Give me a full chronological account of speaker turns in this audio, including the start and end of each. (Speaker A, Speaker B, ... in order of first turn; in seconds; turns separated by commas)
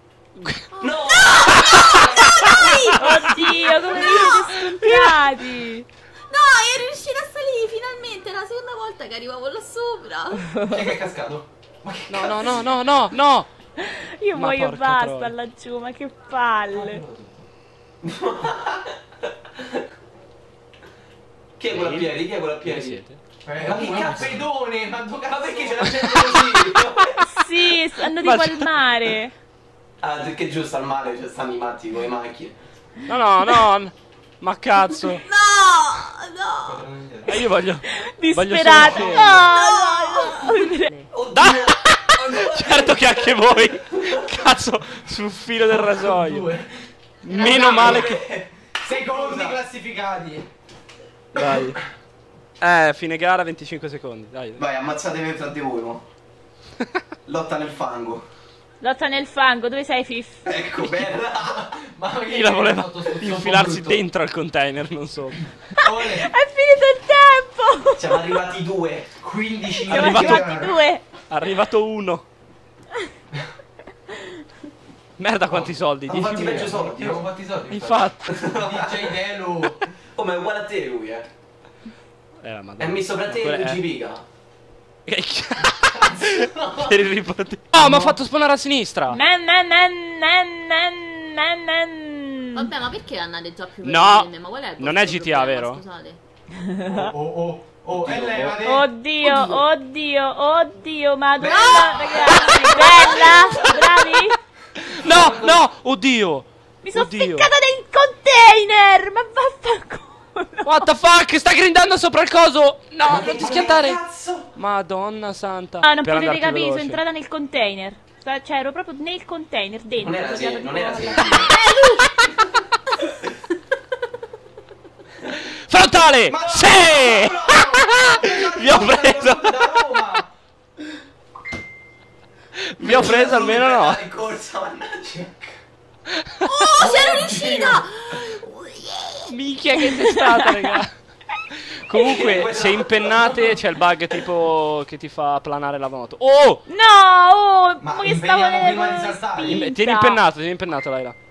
Speaker A: 0.4-0.7, Speaker B: 0.7-3.0, Speaker C: 0.8-2.2, Speaker A: 1.4-5.2, Speaker D: 3.0-5.9, Speaker B: 3.9-4.5, Speaker B: 6.3-10.5, Speaker D: 10.5-10.9, Speaker E: 10.7-12.6, Speaker A: 12.1-13.5, Speaker D: 13.8-17.0, Speaker A: 14.3-15.3, Speaker E: 16.7-17.5, Speaker C: 18.0-18.9, Speaker C: 21.6-23.0, Speaker A: 21.7-22.1, Speaker A: 22.6-23.2, Speaker E: 23.4-26.4, Speaker C: 23.6-24.5, Speaker C: 25.3-27.2, Speaker D: 27.2-29.4, Speaker A: 28.2-28.7, Speaker C: 30.0-32.6, Speaker A: 33.1-35.2, Speaker B: 35.1-36.8, Speaker E: 36.6-37.5, Speaker A: 37.3-39.5, Speaker D: 37.9-41.1, Speaker E: 38.8-39.2, Speaker B: 39.3-40.5, Speaker C: 41.1-44.1, Speaker A: 41.3-46.5, Speaker E: 45.6-46.9, Speaker A: 47.2-48.2, Speaker C: 47.3-49.6, Speaker B: 47.4-47.8, Speaker E: 48.8-50.5, Speaker A: 51.3-51.8, Speaker E: 51.4-51.7, Speaker A: 52.6-54.6, Speaker C: 54.6-56.0, Speaker C: 57.3-58.2, Speaker D: 58.8-60.6, Speaker C: 60.5-61.7, Speaker E: 61.4-64.0, Speaker A: 62.3-65.5, Speaker D: 65.8-68.2, Speaker E: 65.8-66.3, Speaker C: 68.0-69.2, Speaker E: 69.2-70.8, Speaker D: 69.7-71.1, Speaker A: 69.9-70.7, Speaker A: 71.3-72.2, Speaker A: 75.2-76.9, Speaker C: 76.1-77.3, Speaker E: 76.4-79.8, Speaker A: 77.7-78.4, Speaker C: 78.2-79.0, Speaker C: 80.2-81.3, Speaker A: 82.4-83.8, Speaker C: 82.8-84.2, Speaker A: 85.1-89.2, Speaker E: 86.2-86.9, Speaker E: 87.8-88.2, Speaker D: 89.1-92.7, Speaker B: 92.5-96.2, Speaker A: 93.8-95.8, Speaker D: 96.6-97.1, Speaker E: 96.9-98.9, Speaker A: 98.0-98.5, Speaker D: 98.6-104.4, Speaker B: 99.2-99.6, Speaker C: 101.4-104.0, Speaker B: 101.5-103.7, Speaker A: 104.8-107.5, Speaker E: 105.1-105.6, Speaker D: 106.8-110.9, Speaker A: 110.7-114.0, Speaker C: 113.0-114.5, Speaker A: 114.5-117.0, Speaker D: 115.8-121.6, Speaker C: 120.0-121.6, Speaker A: 125.5-129.8, Speaker E: 126.3-130.3, Speaker A: 132.6-134.0, Speaker C: 132.8-135.5, Speaker A: 136.4-136.9, Speaker B: 136.4-139.2, Speaker E: 136.8-137.9, Speaker A: 139.3-140.9, Speaker D: 139.9-140.7, Speaker A: 141.5-146.6, Speaker C: 141.9-143.4, Speaker D: 146.7-150.2, Speaker E: 147.8-149.6, Speaker A: 149.4-151.2